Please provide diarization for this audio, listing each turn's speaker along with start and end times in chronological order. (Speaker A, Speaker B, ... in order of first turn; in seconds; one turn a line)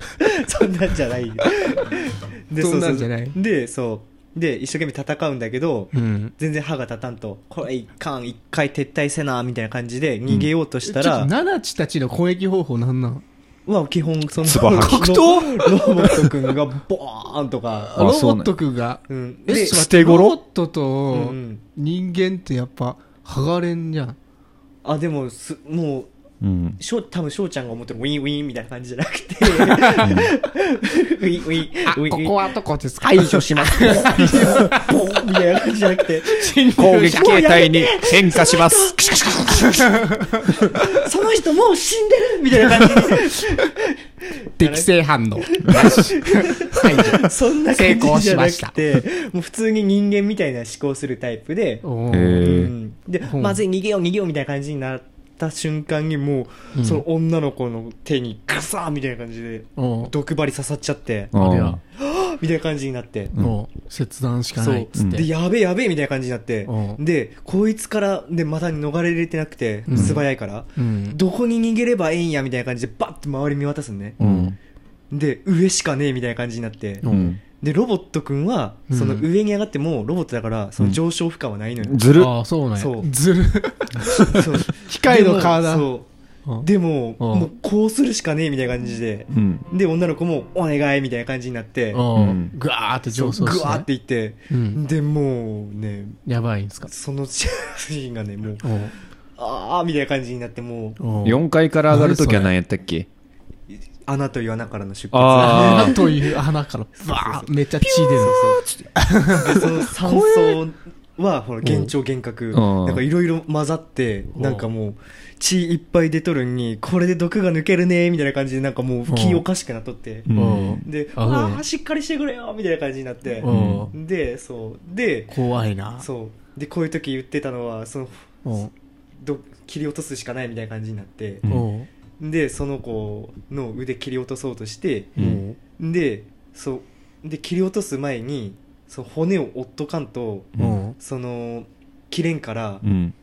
Speaker A: 0.2-11.3
Speaker B: 2.6-3.4
Speaker B: 5.9-6.3
Speaker B: 10.8-13.2
Speaker A: 13.7-18.0
Speaker C: 14.4-16.3
Speaker B: 14.7-15.2
Speaker B: 17.8-24.2
Speaker C: 17.9-18.5
Speaker A: 19.1-19.8
Speaker C: 19.5-20.4
Speaker A: 21.1-21.6
Speaker A: 24.8-26.1
Speaker C: 26.4-26.8
Speaker A: 26.8-32.5
Speaker B: 29.4-30.2
Speaker C: 30.0-30.3
Speaker B: 31.9-35.2
Speaker A: 33.0-39.7
Speaker C: 33.5-34.6
Speaker B: 36.2-37.6
Speaker C: 36.8-39.9
Speaker B: 39.6-40.4
Speaker A: 40.5-44.0
Speaker A: 44.6-44.9
Speaker B: 44.6-48.7
Speaker A: 45.4-61.3
Speaker B: 51.8-52.6
Speaker C: 52.1-52.7
Speaker B: 53.3-53.6
Speaker B: 56.7-57.0
Speaker B: 59.8-60.1
Speaker B: 61.3-61.8
Speaker C: 61.3-61.8
Speaker A: 62.0-63.3
Speaker B: 63.3-65.3
Speaker A: 64.6-74.2
Speaker C: 65.0-65.2
Speaker B: 66.7-67.0
Speaker B: 69.9-70.2
Speaker C: 69.9-70.2
Speaker B: 70.8-71.2
Speaker B: 74.2-74.5
Speaker C: 74.2-74.5
Speaker A: 75.1-82.2
Speaker B: 77.0-77.4
Speaker C: 77.1-77.4
Speaker B: 78.9-79.3
Speaker C: 81.8-82.3
Speaker B: 82.2-85.9
Speaker A: 82.7-83.1
Speaker A: 84.3-86.1
Speaker A: 86.6-92.1
Speaker B: 87.2-87.5
Speaker C: 89.3-89.6
Speaker B: 91.9-93.9
Speaker C: 92.1-92.5
Speaker A: 93.1-96.2
Speaker B: 94.5-94.8
Speaker B: 96.2-96.9
Speaker A: 96.9-98.7
Speaker B: 98.6-98.9
Speaker A: 99.4-101.0
Speaker B: 101.0-102.5
Speaker C: 101.2-103.1
Speaker A: 104.0-106.2
Speaker C: 105.1-106.0
Speaker B: 105.4-109.7
Speaker A: 107.0-120.3
Speaker B: 111.6-111.9
Speaker C: 112.5-113.0
Speaker B: 114.4-114.7
Speaker B: 119.1-119.4
Speaker C: 120.3-120.8
Speaker B: 120.3-121.6
Speaker A: 120.8-125.3
Speaker B: 123.4-123.9
Speaker C: 123.5-123.8
Speaker B: 125.3-126.1
Speaker A: 126.0-128.4
Speaker B: 128.4-128.7
Speaker A: 129.2-131.4
Speaker B: 131.5-131.9
Speaker A: 132.2-135.1
Speaker C: 135.2-135.4
Speaker B: 135.2-135.6
Speaker A: 135.8-142.8
Speaker B: 140.6-140.9
Speaker C: 142.8-143.1